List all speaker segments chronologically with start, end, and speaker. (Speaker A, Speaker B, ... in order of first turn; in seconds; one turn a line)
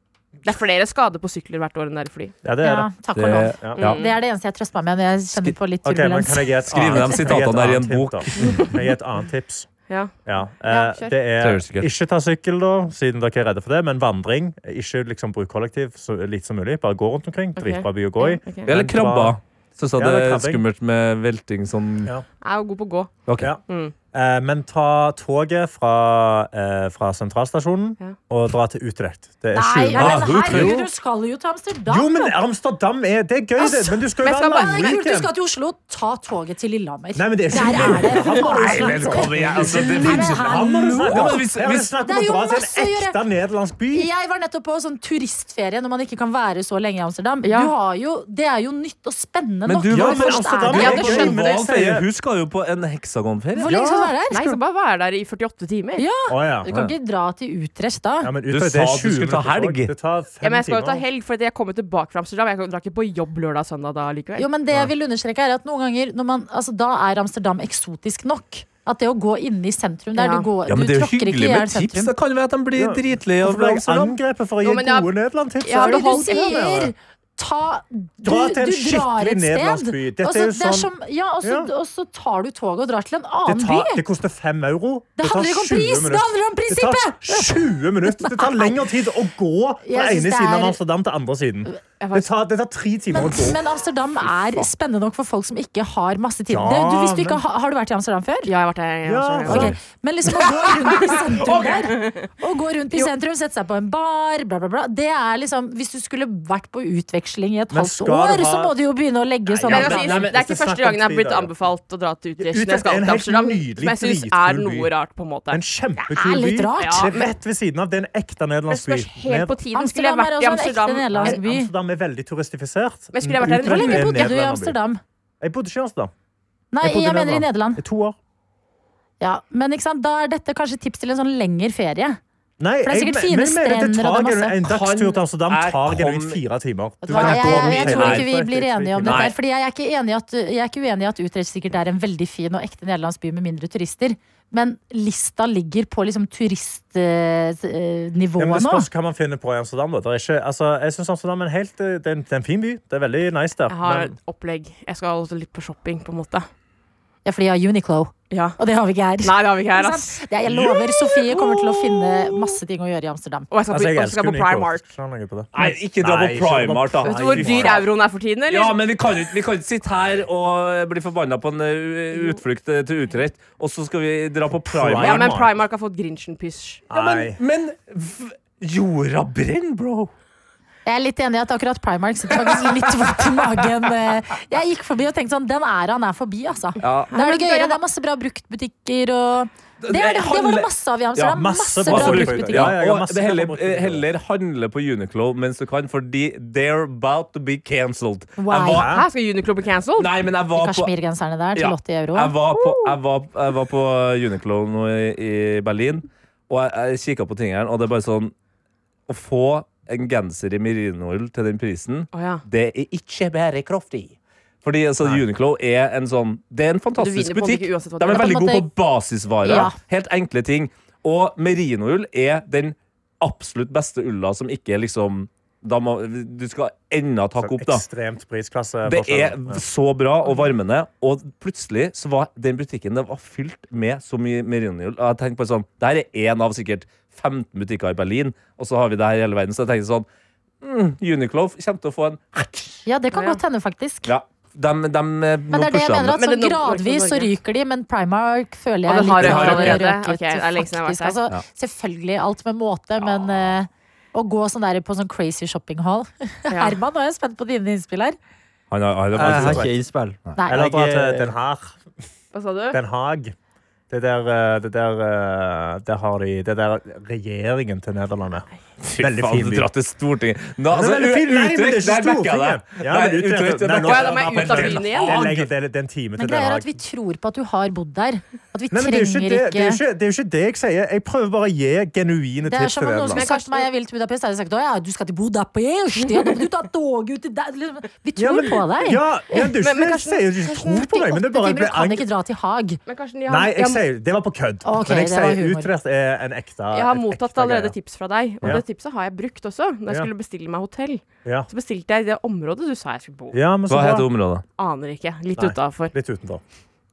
Speaker A: 0.5-2.4
Speaker B: 2.4-2.9
Speaker C: 2.6-7.4
Speaker D: 3.2-4.0
Speaker A: 3.8-4.2
Speaker B: 5.8-19.4
Speaker D: 6.7-8.8
Speaker A: 8.4-8.7
Speaker A: 9.9-11.2
Speaker D: 11.4-11.9
Speaker A: 17.6-18.7
Speaker D: 18.7-22.1
Speaker B: 19.9-20.6
Speaker A: 22.4-23.9
Speaker B: 24.1-30.9
Speaker C: 29.5-32.4
Speaker D: 29.9-30.8
Speaker B: 31.9-35.3
Speaker C: 33.6-41.5
Speaker A: 34.2-35.0
Speaker B: 37.1-44.1
Speaker D: 37.6-41.9
Speaker C: 42.0-43.2
Speaker C: 43.9-51.3
Speaker A: 47.4-47.7
Speaker D: 49.7-53.8
Speaker B: 49.9-52.1
Speaker A: 50.8-51.4
Speaker C: 53.6-54.4
Speaker B: 53.6-54.6
Speaker A: 54.3-56.0
Speaker C: 56.0-58.3
Speaker B: 56.3-56.7
Speaker B: 58.2-61.0
Speaker D: 58.5-59.9
Speaker A: 60.4-64.5
Speaker C: 64.4-72.1
Speaker A: 70.2-70.5
Speaker D: 70.7-74.2
Speaker B: 72.8-76.9
Speaker A: 74.6-75.1
Speaker A: 75.6-76.7
Speaker C: 75.8-84.0
Speaker B: 78.2-80.9
Speaker B: 81.4-81.7
Speaker B: 83.5-93.6
Speaker C: 85.2-88.8
Speaker C: 89.8-90.8
Speaker A: 92.0-92.3
Speaker C: 93.1-98.5
Speaker B: 96.5-97.4
Speaker A: 98.5-99.8
Speaker B: 99.0-99.8
Speaker C: 99.5-110.2
Speaker D: 101.5-101.9
Speaker A: 101.9-102.3
Speaker B: 107.7-108.8
Speaker B: 109.5-111.5
Speaker A: 109.7-115.6
Speaker B: 112.4-114.9
Speaker B: 115.5-119.6
Speaker C: 116.0-117.1
Speaker A: 116.8-117.3
Speaker A: 118.7-121.4
Speaker C: 119.7-121.7
Speaker B: 121.1-124.8
Speaker A: 123.1-124.3
Speaker C: 123.5-125.0
Speaker B: 125.4-126.1
Speaker C: 126.7-127.8
Speaker B: 126.8-128.2
Speaker C: 129.2-132.2
Speaker B: 132.6-139.3
Speaker C: 132.8-134.6
Speaker D: 134.6-136.4
Speaker C: 137.0-148.9
Speaker D: 137.1-138.4
Speaker D: 139.0-139.3
Speaker B: 148.4-154.2
Speaker A: 153.7-156.5
Speaker C: 157.2-163.5
Speaker A: 158.3-158.6
Speaker A: 159.2-160.2
Speaker A: 161.0-162.6
Speaker A: 163.5-164.8
Speaker B: 163.7-167.8
Speaker D: 165.5-167.9
Speaker A: 167.0-168.8
Speaker D: 168.5-175.4
Speaker A: 172.1-172.4
Speaker B: 174.7-175.5
Speaker A: 175.0-176.9
Speaker B: 176.9-177.4
Speaker D: 176.9-180.1
Speaker C: 180.9-192.8
Speaker D: 186.8-187.1
Speaker A: 187.1-187.8
Speaker D: 189.8-198.9
Speaker B: 191.2-194.1
Speaker C: 198.4-198.9
Speaker B: 198.7-199.1
Speaker A: 198.8-200.2
Speaker D: 200.0-200.9
Speaker C: 200.6-202.3
Speaker D: 201.6-208.3
Speaker A: 202.5-203.0
Speaker D: 209.1-227.8
Speaker A: 212.1-212.4
Speaker A: 217.0-218.5
Speaker C: 218.1-218.7
Speaker C: 219.4-219.8
Speaker B: 227.4-229.6
Speaker D: 228.9-240.1
Speaker D: 240.6-242.8
Speaker C: 242.9-244.1
Speaker A: 243.1-243.4
Speaker D: 244.1-246.2
Speaker C: 245.5-258.2
Speaker A: 246.2-247.3
Speaker A: 248.9-251.2
Speaker D: 249.2-249.8
Speaker A: 256.5-256.8
Speaker D: 258.7-259.7
Speaker E: 259.1-261.3
Speaker B: 259.2-259.7
Speaker C: 260.4-260.7
Speaker B: 260.5-261.8
Speaker A: 262.3-262.8
Speaker B: 262.7-263.3
Speaker B: 263.9-269.7
Speaker D: 268.8-275.5
Speaker B: 270.7-276.7
Speaker A: 273.8-275.2
Speaker C: 276.2-279.8
Speaker B: 278.7-283.3
Speaker C: 282.5-289.0
Speaker A: 283.1-283.7
Speaker A: 286.1-286.4
Speaker B: 288.2-292.1
Speaker A: 289.4-290.8
Speaker C: 290.6-292.8
Speaker A: 292.9-293.9
Speaker B: 293.3-297.8
Speaker C: 294.6-295.7
Speaker A: 296.7-303.4
Speaker B: 303.3-304.1
Speaker D: 303.7-304.4
Speaker A: 304.6-305.9
Speaker B: 305.4-306.4